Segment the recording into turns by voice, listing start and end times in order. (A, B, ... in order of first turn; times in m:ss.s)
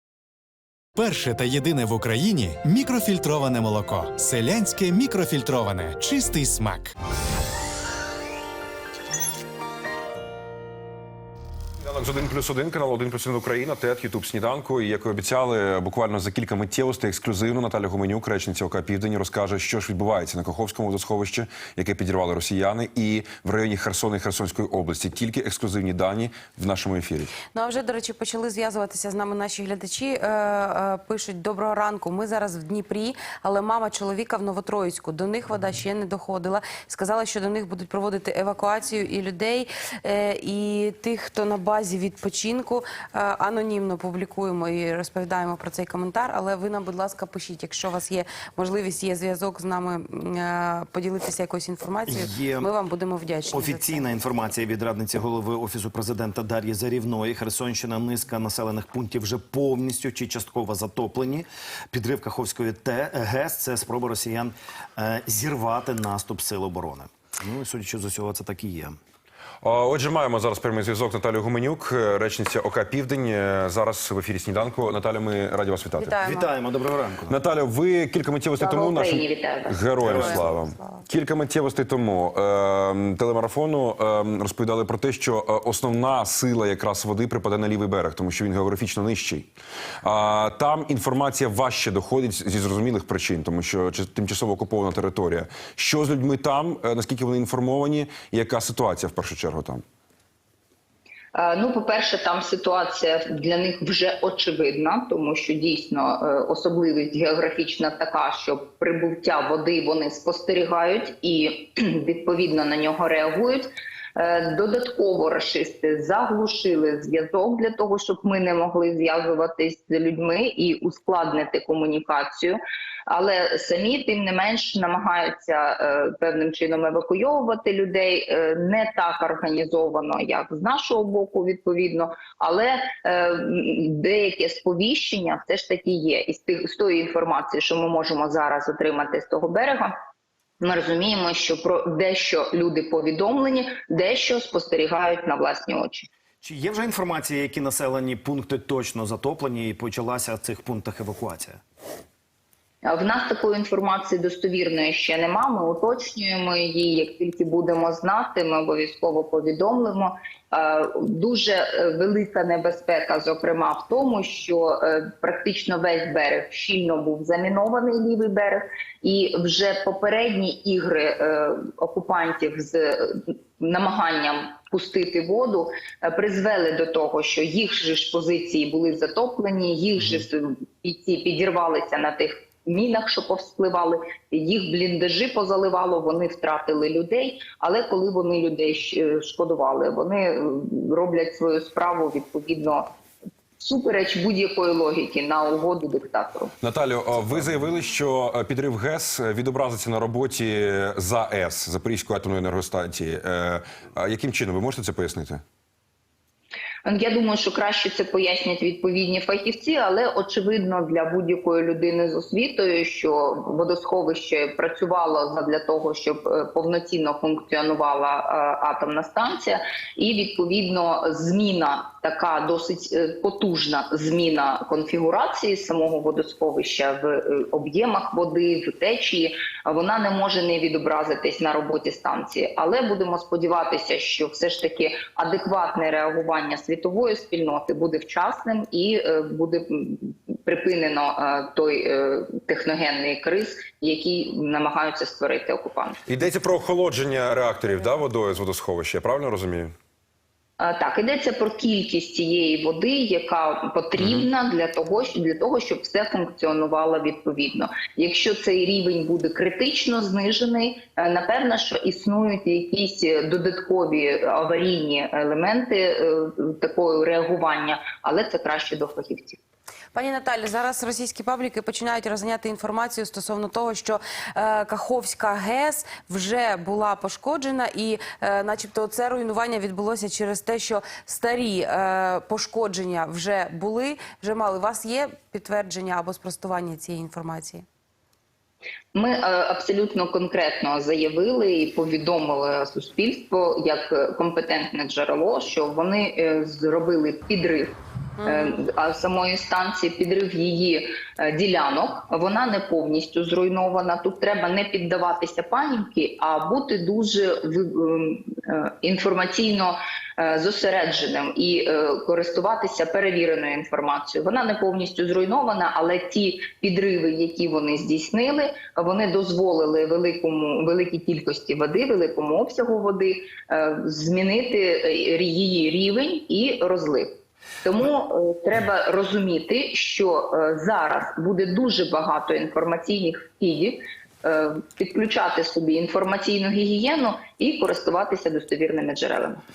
0:01.0-0:06.9 A
0:11.8-0:27.3 B
0:27.5-0:54.5 C
0:52.1-0:52.7 D
0:53.5-1:09.0 D
1:09.6-1:16.2 B
1:16.0-1:16.6 C
1:16.2-1:17.4 D
1:17.3-1:29.5 B
1:18.6-1:20.0 E
1:20.0-1:20.4 D
1:20.1-1:21.0 C
1:30.0-1:39.8 B
1:41.3-2:19.9 E
2:20.6-2:26.1 E
2:26.4-2:31.6 D
2:32.8-3:12.9 E
3:13.6-3:16.5 E
3:16.6-3:25.4 B
3:26.8-4:06.0 E
4:06.1-4:09.7 B
4:10.6-4:29.4 E
4:14.0-4:14.3 B
4:29.9-4:47.6 C
4:49.0-5:39.4 E
4:58.2-4:58.7 C